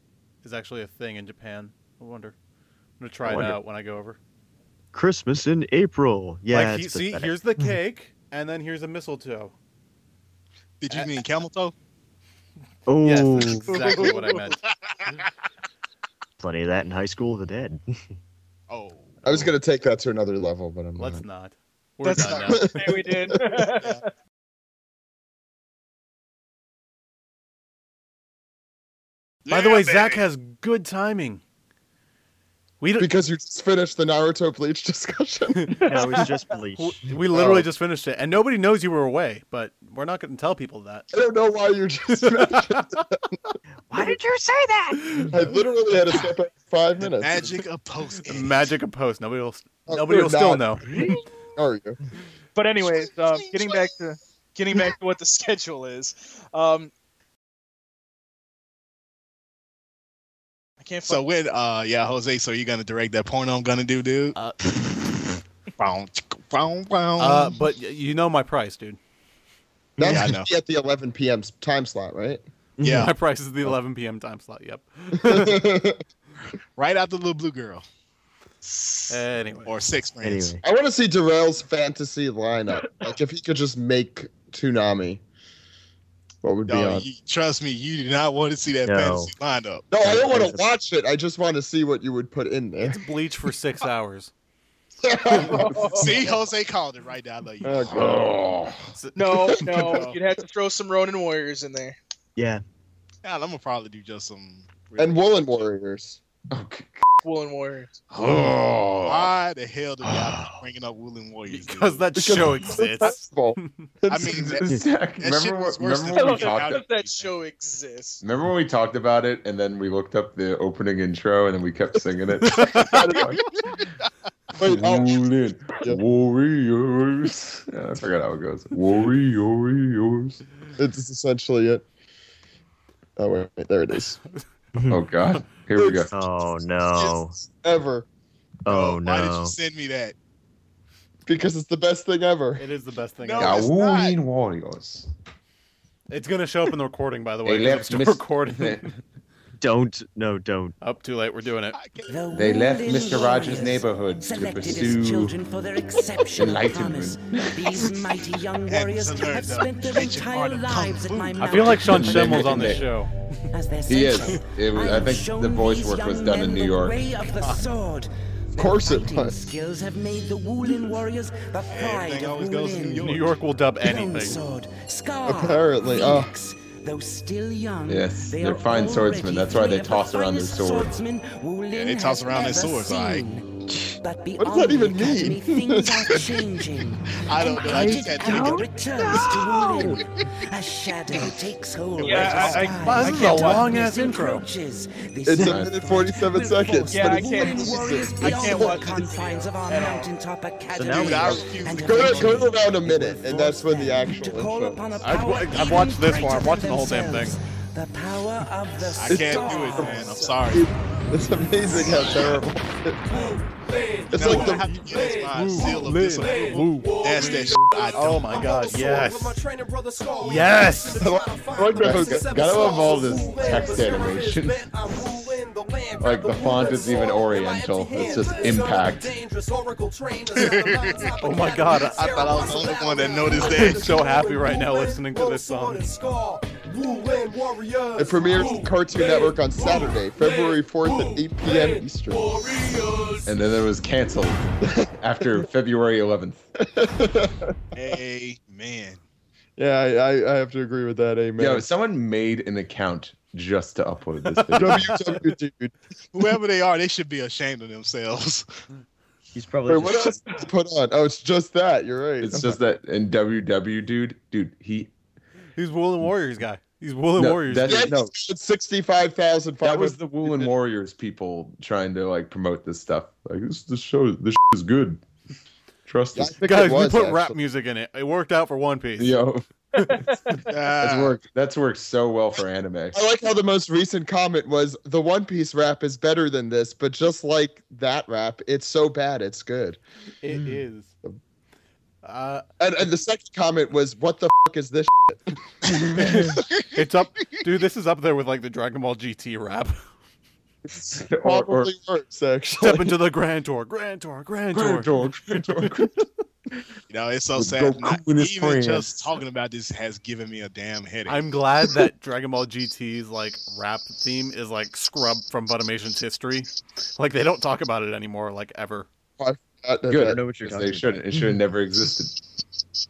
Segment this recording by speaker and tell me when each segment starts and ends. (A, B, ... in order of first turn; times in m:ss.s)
0:00.4-0:02.4 A
0:03.0-0:04.2 A
0:03.2-0:03.6 B
0:04.9-0:07.7 B
0:06.5-0:09.5 A
0:10.8-0:11.7 C
0:10.9-0:11.1 A
0:12.8-0:14.0 B
0:13.0-0:15.2 A
0:14.0-0:15.3 C
0:16.4-0:18.1 B
0:18.7-0:19.2 C
0:19.2-0:21.2 D
0:21.0-0:22.8 A
0:22.0-0:24.1 E
0:22.1-0:24.0 D
0:29.4-0:30.2 C
0:29.5-0:31.4 A
0:32.8-0:33.1 A
0:33.0-0:35.9 D
0:35.5-0:41.1 A
0:35.8-0:37.2 B
0:35.9-0:36.2 E
0:37.3-0:37.6 D
0:41.1-0:43.2 D
0:42.2-0:42.9 A
0:43.9-0:45.4 B
0:45.3-0:47.6 D
0:47.0-0:48.7 C
0:48.2-0:50.9 A
0:49.9-0:52.0 D
0:52.5-0:56.9 E
1:00.8-1:01.2 E
1:01.0-1:04.4 C
1:04.3-1:04.7 A
1:05.8-1:07.6 C
1:07.2-1:09.0 A
1:10.0-1:10.3 B
1:10.0-1:12.4 D
1:10.0-1:10.5 C
1:12.8-1:13.1 B
1:12.8-1:15.6 A
1:15.2-1:16.0 D
1:16.8-1:17.8 C
1:18.6-1:19.2 B
1:19.1-1:19.7 A
1:19.6-1:20.6 C
1:20.2-1:20.6 B
1:20.6-1:25.2 D
1:26.4-1:27.1 D
1:26.7-1:29.8 C
1:28.8-1:29.3 B
1:29.9-1:33.0 D
1:30.0-1:30.6 B
1:32.8-1:34.3 A
1:35.0-1:36.2 D
1:35.4-1:37.8 C
1:35.6-1:36.3 E
1:37.6-1:38.4 D
1:37.9-1:38.9 F
1:38.9-1:39.6 A
1:39.1-1:42.0 E
1:39.3-1:40.1 D
1:39.6-1:40.2 C
1:42.4-1:42.6 B
1:43.2-1:45.0 C
1:45.0-1:46.2 D
1:46.5-1:47.0 F
1:47.2-1:48.0 E
1:48.1-1:49.3 F
1:49.1-1:52.1 C
1:51.5-1:53.8 A
1:52.2-1:54.6 D
1:54.1-1:57.3 C
1:54.3-1:56.9 F
1:56.1-1:58.2 E
1:58.2-2:03.4 F
2:02.5-2:03.0 A
2:02.9-2:03.3 D
2:03.4-2:04.1 C
2:04.6-2:06.0 D
2:04.6-2:10.4 F
2:10.8-2:11.8 D
2:13.2-2:14.2 D
2:14.7-2:15.0 B
2:14.9-2:16.1 F
2:15.8-2:16.1 D
2:16.1-2:17.4 B
2:16.8-2:18.1 D
2:18.6-2:19.6 B
2:18.7-2:20.1 C
2:21.2-2:22.6 D
2:22.6-2:23.7 A
2:23.2-2:24.2 C
2:23.4-2:25.1 F
2:26.1-2:28.9 A
2:27.4-2:28.9 F
2:29.6-2:30.7 B
2:30.8-2:31.8 A
2:31.7-2:33.4 C
2:32.1-2:42.7 G
2:32.3-2:35.4 F
2:36.3-2:37.2 F
2:38.7-2:42.0 C
2:41.4-2:43.1 A
2:41.9-2:42.9 F
2:43.5-2:53.2 G
2:43.9-2:47.0 F
2:48.6-2:49.3 D
2:51.7-2:53.3 C
2:53.0-2:54.4 A
2:53.8-3:30.3 G
2:55.2-2:56.3 D
2:57.9-3:01.0 F
3:01.7-3:03.2 C
3:04.4-3:06.3 D
3:07.1-3:10.0 C
3:07.7-3:08.1 B
3:12.0-3:12.8 C
3:12.0-3:13.7 E
3:12.8-3:14.4 A
3:15.2-3:19.1 D
3:15.4-3:15.7 F
3:16.9-3:20.1 E
3:20.7-3:21.4 B
3:20.9-3:22.4 C
3:21.8-3:25.0 D
3:25.0-3:27.4 A
3:29.0-3:30.7 C
3:29.1-3:33.4 D
3:34.1-3:38.4 C
3:34.1-3:34.7 D
3:34.2-3:39.4 A
3:40.2-3:41.1 A
3:41.0-3:42.4 D
3:41.6-3:45.0 F
3:46.0-3:49.2 F
3:50.3-3:51.2 C
3:51.2-3:52.4 A
3:51.9-3:53.9 C
3:53.5-3:56.0 A
3:58.0-4:02.5 D
4:03.2-4:06.4 F
4:04.7-4:05.3 D
4:06.6-4:07.6 D
4:07.7-4:09.0 C
4:09.6-4:11.7 D
4:11.4-4:15.0 F
4:14.2-4:14.8 A
4:14.6-4:15.8 D
4:16.1-4:18.4 C
4:19.3-4:20.2 B
4:19.7-4:22.6 D
4:22.2-4:24.9 F
4:25.6-4:27.9 A
4:27.2-4:28.1 F
4:27.6-4:30.5 D
4:29.6-4:35.0 F
4:35.9-4:36.4 F
4:36.1-4:37.4 D
4:36.4-4:39.2 A
4:39.0-4:43.0 F
4:40.5-4:41.2 C
4:42.9-4:49.8 D
4:50.2-4:50.9 A
4:52.0-4:52.4 A
4:52.6-4:56.3 D
4:56.0-4:59.8 A
4:56.3-4:56.7 C
5:00.7-5:02.9 D
5:00.8-5:01.7 F
5:02.6-5:04.9 A
5:04.5-5:06.0 F
5:06.9-5:11.2 C
5:07.4-5:09.1 F
5:11.1-5:18.9 A
5:19.2-5:20.2 D
5:19.9-5:22.2 F
5:20.1-5:21.0 B